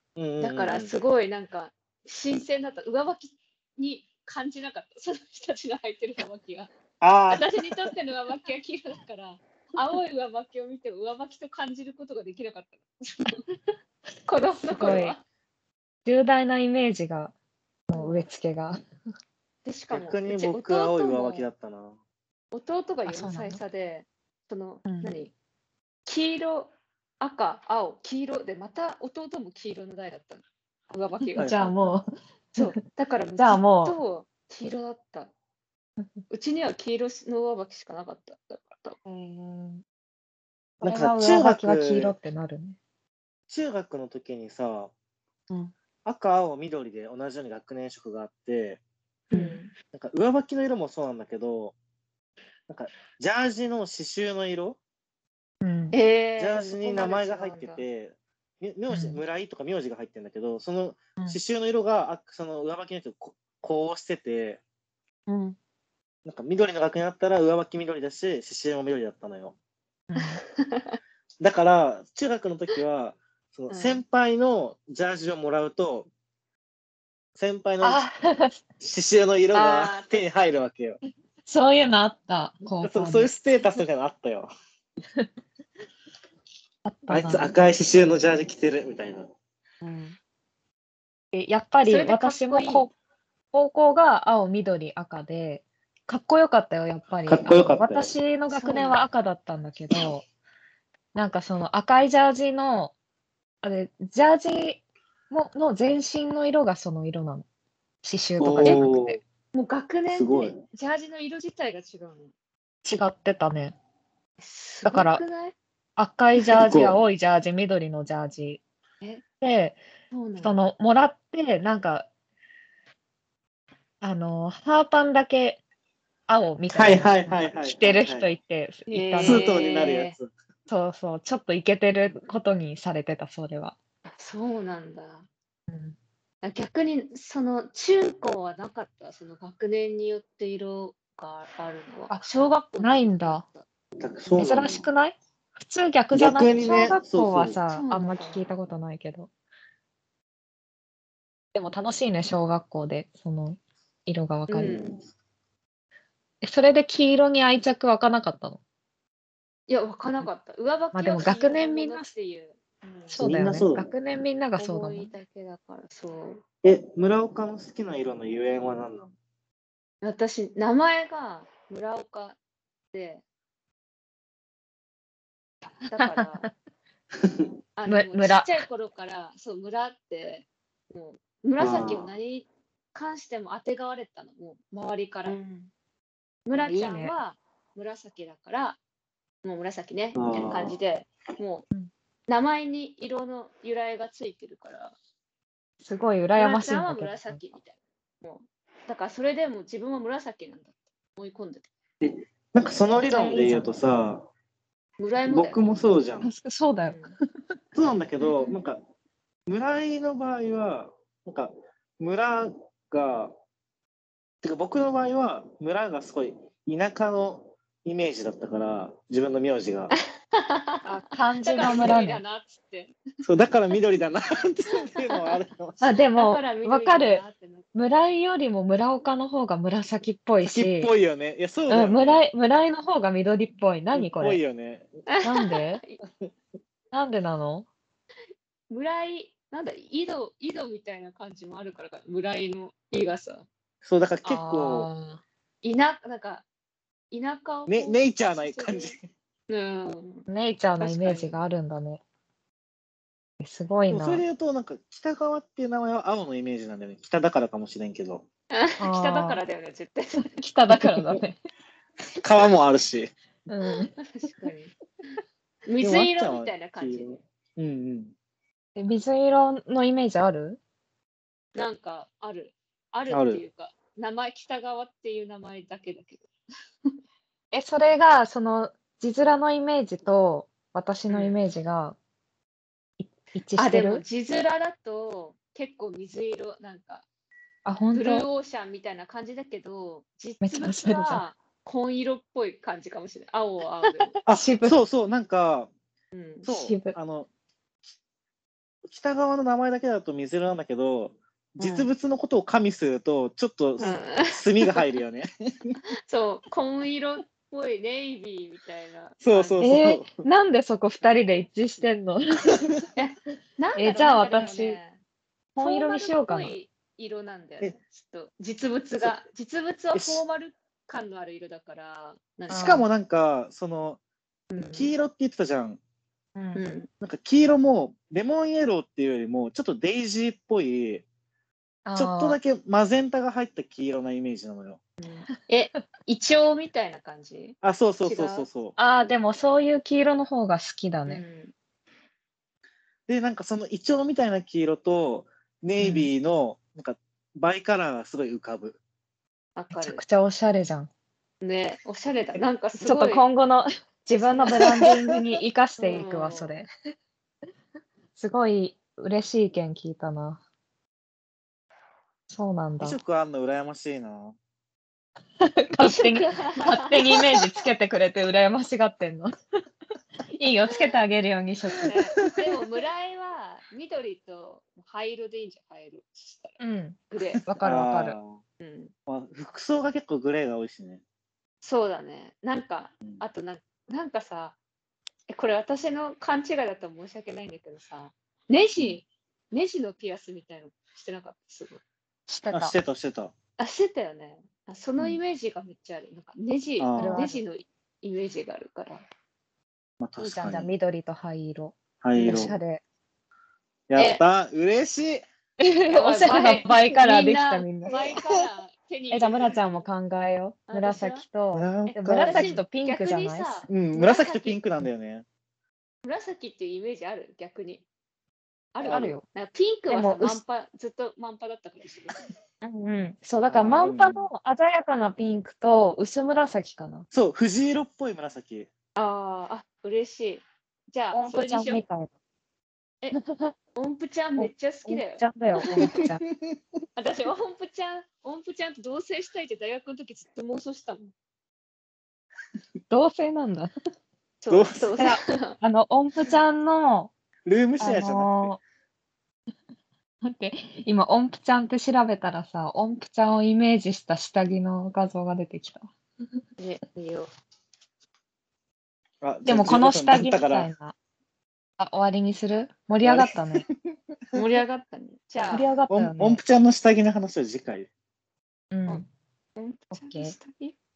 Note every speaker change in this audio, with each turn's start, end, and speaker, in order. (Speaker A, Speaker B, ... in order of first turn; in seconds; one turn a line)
Speaker A: 0.2-0.9
Speaker B: 0.4-6.7
Speaker A: 7.0-7.7
Speaker B: 7.3-13.8
Speaker B: 14.3-15.2
Speaker C: 14.6-15.2
Speaker C: 16.1-17.3
Speaker C: 17.9-18.8
Speaker B: 17.9-18.3
Speaker B: 19.6-21.5
Speaker A: 19.9-22.0
Speaker B: 22.5-25.3
Speaker C: 23.1-23.6
Speaker C: 24.9-25.2
Speaker B: 26.1-31.9
Speaker C: 31.4-32.8
Speaker B: 32.6-35.3
Speaker C: 33.4-34.0
Speaker B: 36.3-39.0
Speaker C: 39.0-39.8
Speaker C: 40.8-42.8
Speaker A: 40.8-42.1
Speaker A: 43.5-44.9
Speaker A: 46.0-48.8
Speaker B: 49.3-49.7
Speaker C: 49.3-49.6
Speaker A: 49.9-51.8
Speaker A: 52.7-54.8
Speaker C: 55.6-56.0
Speaker B: 55.9-57.8
Speaker A: 56.4-64.6
Speaker C: 58.9-59.2
Speaker C: 65.3-65.6
Speaker A: 66.2-69.6
Speaker C: 70.1-70.4
Speaker B: 70.3-71.0
Speaker A: 71.4-76.1
Speaker B: 73.7-74.0
Speaker A: 77.4-78.0
Speaker C: 77.8-78.6
Speaker A: 78.8-81.0
Speaker B: 79.5-80.2
Speaker C: 81.5-83.3
Speaker A: 82.8-84.5
Speaker C: 86.8-87.6
Speaker A: 87.1-89.3
Speaker C: 89.8-90.2
Speaker C: 91.3-92.9
Speaker B: 91.8-92.9
Speaker C: 93.5-100.2
Speaker A: 97.3-98.1
Speaker B: 98.5-99.1
Speaker C: 101.1-102.9
Speaker C: 103.6-107.5
Speaker C: 108.0-109.2
Speaker A: 108.4-109.2
Speaker B: 109.5-112.3
Speaker A: 110.1-110.6
Speaker C: 112.8-113.8
Speaker B: 114.4-115.5
Speaker C: 114.8-115.2
Speaker C: 116.0-118.6
Speaker A: 116.5-117.0
Speaker C: 119.4-119.8
Speaker B: 120.1-120.6
Speaker C: 120.4-122.1
Speaker C: 124.0-125.6
Speaker C: 126.3-129.5
Speaker A: 126.7-128.3
Speaker B: 128.9-130.2
Speaker A: 129.2-130.3
Speaker C: 130.7-133.8
Speaker B: 134.2-135.3
Speaker C: 135.7-136.0
Speaker B: 136.4-143.7
Speaker C: 142.8-143.4
Speaker A: 144.0-144.9
Speaker C: 144.3-149.3
Speaker A: 146.1-147.6
Speaker B: 147.7-148.5
Speaker C: 151.6-154.8
Speaker B: 154.5-155.0
Speaker A: 154.6-154.9
Speaker C: 156.4-158.6
Speaker B: 159.7-163.3
Speaker C: 160.9-162.1
Speaker C: 163.1-165.1
Speaker A: 163.2-163.9
Speaker B: 164.6-166.4
Speaker A: 166.6-169.1
Speaker B: 170.0-172.4
Speaker B: 172.9-173.2
Speaker B: 175.8-176.5
Speaker C: 176.0-176.5
Speaker B: 177.8-185.4
Speaker C: 177.9-178.6
Speaker A: 181.6-182.1
Speaker C: 185.2-185.7
Speaker B: 186.5-188.8
Speaker C: 186.6-187.1
Speaker B: 189.4-191.7
Speaker A: 190.2-190.8
Speaker B: 192.3-194.9
Speaker C: 195.8-197.4
Speaker B: 196.3-201.6
Speaker A: 202.0-204.3
Speaker C: 203.0-203.7
Speaker B: 205.0-205.8
Speaker A: 205.3-206.3
Speaker C: 206.2-207.0
Speaker B: 206.8-207.2
Speaker A: 207.8-208.8
Speaker A: 209.5-213.3
Speaker A: 214.4-220.0
Speaker B: 219.9-220.9
Speaker C: 220.8-222.2
Speaker B: 221.4-222.9
Speaker A: 221.7-222.0
Speaker A: 223.2-225.9
Speaker B: 225.0-225.3
Speaker C: 225.8-227.2
Speaker B: 226.1-227.7
Speaker C: 227.8-230.9
Speaker A: 230.4-232.2
Speaker C: 231.7-234.4
Speaker A: 233.9-234.9
Speaker B: 235.1-236.0
Speaker C: 235.2-235.8
Speaker C: 236.9-237.7
Speaker B: 238.7-243.5
Speaker A: 243.8-244.9
Speaker C: 244.2-245.2
Speaker B: 245.6-246.4
Speaker B: 247.1-249.0
Speaker A: 247.7-249.1
Speaker B: 249.5-250.3
Speaker C: 250.3-252.0
Speaker B: 250.8-251.4
Speaker C: 253.4-254.2
Speaker A: 253.9-258.2
Speaker B: 258.5-260.4
Speaker C: 258.8-259.4
Speaker C: 260.2-261.4
Speaker A: 260.8-261.2
Speaker A: 262.2-263.1
Speaker C: 263.5-263.9
Speaker B: 264.1-264.7
Speaker B: 265.7-267.2
Speaker A: 265.8-268.1
Speaker C: 268.8-270.6
Speaker B: 271.6-276.3
Speaker A: 273.1-273.4
Speaker C: 277.5-282.0
Speaker B: 281.1-281.4
Speaker C: 283.0-284.0
Speaker B: 283.6-287.1
Speaker C: 287.6-288.3
Speaker B: 287.9-294.2
Speaker C: 290.4-291.2
Speaker C: 294.1-294.8
Speaker A: 294.3-295.7
Speaker B: 296.1-296.5
Speaker A: 296.4-297.3
Speaker C: 296.5-297.0
Speaker A: 298.9-305.8
Speaker B: 301.6-301.9
Speaker B: 303.8-304.9
Speaker B: 306.1-309.6
Speaker A: 309.2-310.2
Speaker C: 309.6-312.8
Speaker B: 313.0-315.0
Speaker C: 313.8-314.8
Speaker B: 315.6-322.8
Speaker C: 315.6-316.5
Speaker A: 319.9-320.2
Speaker C: 322.5-322.9
Speaker A: 322.5-324.0
Speaker B: 324.5-324.9
Speaker A: 324.7-325.8
Speaker C: 326.4-326.6
Speaker B: 326.6-326.9
Speaker A: 327.0-331.1
Speaker C: 331.9-332.4
Speaker A: 332.0-334.8
Speaker B: 335.0-338.5
Speaker A: 337.6-338.8
Speaker C: 338.8-341.2
Speaker B: 341.1-341.5
Speaker A: 343.1-348.8
Speaker C: 345.8-346.1
Speaker B: 349.6-350.0
Speaker C: 349.7-350.9
Speaker B: 351.4-353.2
Speaker C: 352.8-356.7
Speaker B: 354.1-354.6
Speaker A: 354.6-354.9
Speaker B: 355.8-356.5
Speaker C: 358.1-360.4
Speaker C: 362.3-363.0
Speaker A: 362.8-364.4
Speaker C: 365.4-369.3
Speaker B: 365.8-367.2
Speaker C: 370.3-371.9
Speaker B: 371.9-376.6
Speaker C: 376.6-378.2
Speaker B: 377.1-377.4
Speaker A: 377.6-378.4
Speaker B: 378.6-378.9
Speaker A: 379.1-381.0
Speaker B: 381.6-384.6
Speaker B: 385.3-391.8
Speaker C: 392.3-392.8
Speaker A: 392.5-393.3
Speaker B: 393.6-399.0
Speaker A: 396.8-397.2
Speaker C: 397.0-397.4
Speaker A: 400.0-400.7
Speaker C: 400.2-402.8
Speaker A: 402.0-402.6
Speaker B: 402.2-402.5
Speaker A: 403.9-405.2
Speaker C: 405.6-408.0
Speaker B: 405.9-409.8
Speaker A: 406.3-406.7
Speaker C: 409.1-413.7
Speaker B: 410.7-411.3
Speaker A: 411.5-412.6
Speaker B: 411.9-414.6
Speaker A: 413.7-415.2
Speaker B: 416.0-417.9
Speaker B: 418.7-422.3
Speaker A: 418.8-419.1
Speaker C: 418.9-419.2
Speaker C: 419.9-420.4
Speaker C: 422.6-427.1
Speaker A: 423.5-424.3
Speaker A: 427.1-428.7
Speaker B: 429.0-431.8
Speaker C: 431.1-432.1
Speaker C: 433.1-433.5
Speaker B: 433.8-435.8
Speaker C: 434.4-436.2
Speaker A: 435.7-436.5
Speaker B: 437.0-441.1
Speaker C: 442.9-443.7
Speaker B: 444.4-445.6
Speaker A: 444.5-445.0
Speaker C: 445.0-447.1
Speaker A: 447.4-448.6
Speaker C: 447.8-448.6
Speaker C: 450.2-455.9
Speaker B: 456.6-457.3
Speaker A: 459.2-460.7
Speaker C: 459.4-460.9
Speaker C: 461.8-463.7
Speaker A: 463.0-463.4
Speaker B: 464.3-465.7
Speaker C: 465.5-466.4
Speaker A: 465.9-467.9
Speaker C: 468.7-469.1
Speaker B: 468.9-470.8
Speaker C: 469.9-470.3